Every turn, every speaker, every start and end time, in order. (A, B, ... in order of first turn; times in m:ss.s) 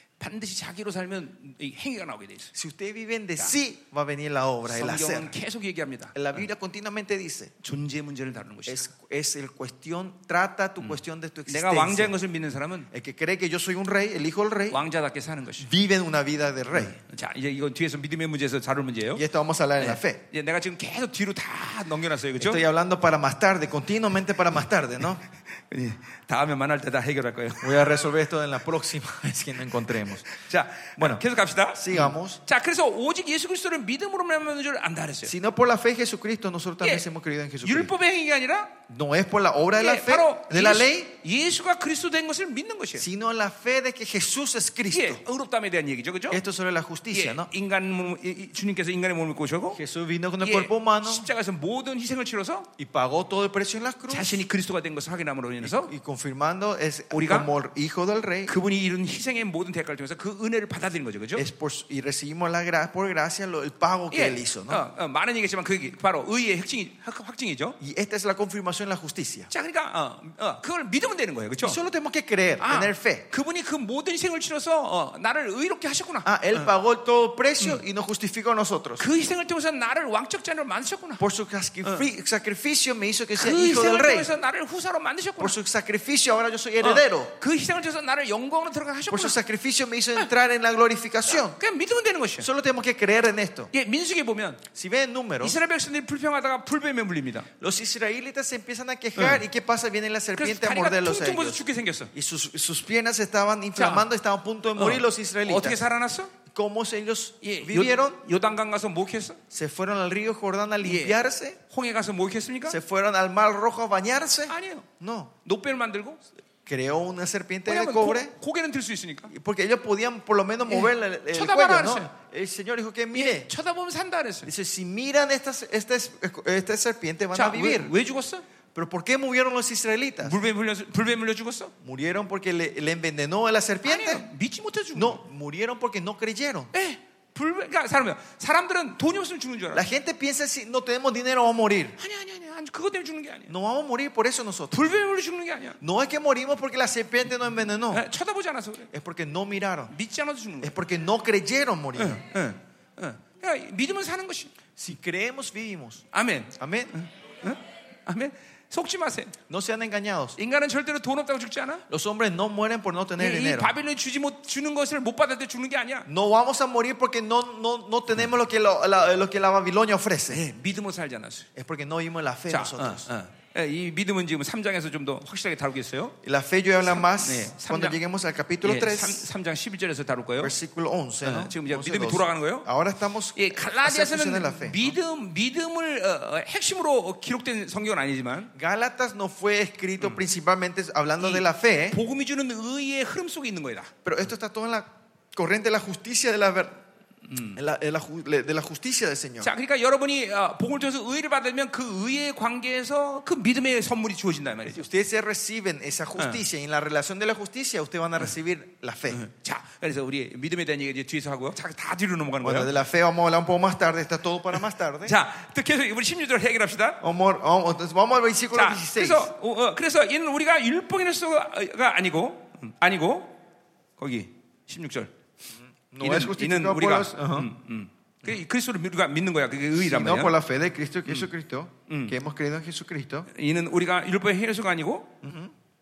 0:00.2-0:02.5 A
0:02.5-0:05.3 B
0:04.7-0:06.2 A
0:06.1-0:07.5 B
0:07.6-0:08.8 A
0:08.7-0:12.1 B
0:10.8-0:12.9 A
0:12.9-0:14.8 B
0:14.7-0:15.7 A
0:15.6-0:17.0 B
0:16.7-0:19.2 A
0:19.1-0:20.2 B
0:19.8-0:22.6 A
0:22.4-0:25.2 B
0:25.7-0:27.8 A
0:27.6-0:30.3 B
0:30.3-0:35.3 A
0:31.0-0:31.2 B
0:31.7-0:32.4 B
0:35.2-0:37.9 B
0:37.6-0:38.8 A
0:38.9-0:41.1 B
0:39.8-0:43.0 A
0:43.0-0:45.2 B
0:44.9-0:46.4 A
0:46.3-0:47.5 B
0:47.1-0:49.8 A
0:49.8-0:51.3 B
0:50.4-0:52.7 A
0:52.8-0:54.4 B
0:54.1-0:55.9 A
0:55.6-0:58.5 B
0:57.1-0:57.5 A
0:58.5-1:01.4 A
1:01.4-1:04.8 B
1:04.1-1:07.8 A
1:07.8-1:09.5 B
1:09.5-1:11.8 A
1:11.6-1:13.3 B
1:12.6-1:16.7 A
1:16.2-1:19.0 B
1:19.0-1:21.2 A
1:21.2-1:24.3 B
1:23.4-1:25.6 A
1:25.4-1:27.3 B
1:26.8-1:29.4 A
1:29.1-1:31.6 B
1:31.3-1:32.5 A
1:32.4-1:33.7 B
1:33.7-1:34.6 A
1:34.7-1:35.6 B
1:35.4-1:37.5 A
1:37.6-1:45.8 B
1:39.2-1:39.4 A
1:40.4-1:42.1 A
1:43.8-1:44.1 A
1:44.8-1:46.3 A
1:46.4-1:48.2 B
1:47.4-1:49.4 A
1:49.5-1:51.6 B
1:50.8-1:52.8 A
1:52.7-1:55.3 B
1:54.5-1:54.9 A
1:55.4-1:56.2 A
1:56.6-1:58.3 B
1:57.7-1:59.3 A
1:59.3-2:03.5 B
2:00.7-2:02.1 A
2:03.1-2:04.5 A
2:04.4-2:07.9 B
2:07.3-2:08.4 A
2:08.7-2:10.4 B
2:10.2-2:11.7 A
2:11.8-2:14.2 B
2:13.8-2:15.2 A
2:14.9-2:16.7 B
2:16.7-2:19.8 A
2:19.7-2:22.0 B
2:22.0-2:23.5 A
2:23.5-2:24.8 B
2:24.7-2:25.8 A
2:25.8-2:28.0 B
2:27.9-2:28.9 A
2:28.9-2:29.9 B
2:29.9-2:30.7 A
2:30.6-2:32.2 B
2:32.0-2:34.5 A
2:34.8-2:36.0 B
2:36.1-2:39.4 A
2:36.6-2:36.9 B
2:39.5-2:40.4 B
2:40.4-2:41.8 A
2:41.9-2:43.7 B
2:43.2-2:46.1 A
2:46.1-2:50.4 B
2:50.3-2:51.5 A
2:51.5-2:53.0 B
2:52.5-2:56.1 A
2:56.2-2:59.2 B
2:56.8-2:58.0 A
2:58.6-3:00.5 A
3:00.4-3:04.9 B
3:01.2-3:02.7 A
3:03.3-3:08.5 A
3:08.5-3:12.0 B
3:11.2-3:13.9 A
3:14.0-3:16.8 B
3:17.3-3:17.6 A
3:17.5-3:19.5 B
3:19.4-3:24.8 A
3:24.7-3:29.2 B
3:29.1-3:32.7 A
3:32.4-3:35.2 B
3:35.0-3:37.0 A
3:37.0-3:39.3 B
3:38.5-3:43.3 A
3:44.0-3:45.1 A
3:45.9-3:47.5 B
3:46.0-3:50.3 A
3:49.8-3:53.3 B
3:51.9-3:52.2 A
3:53.3-3:55.2 A
3:55.2-3:55.5 B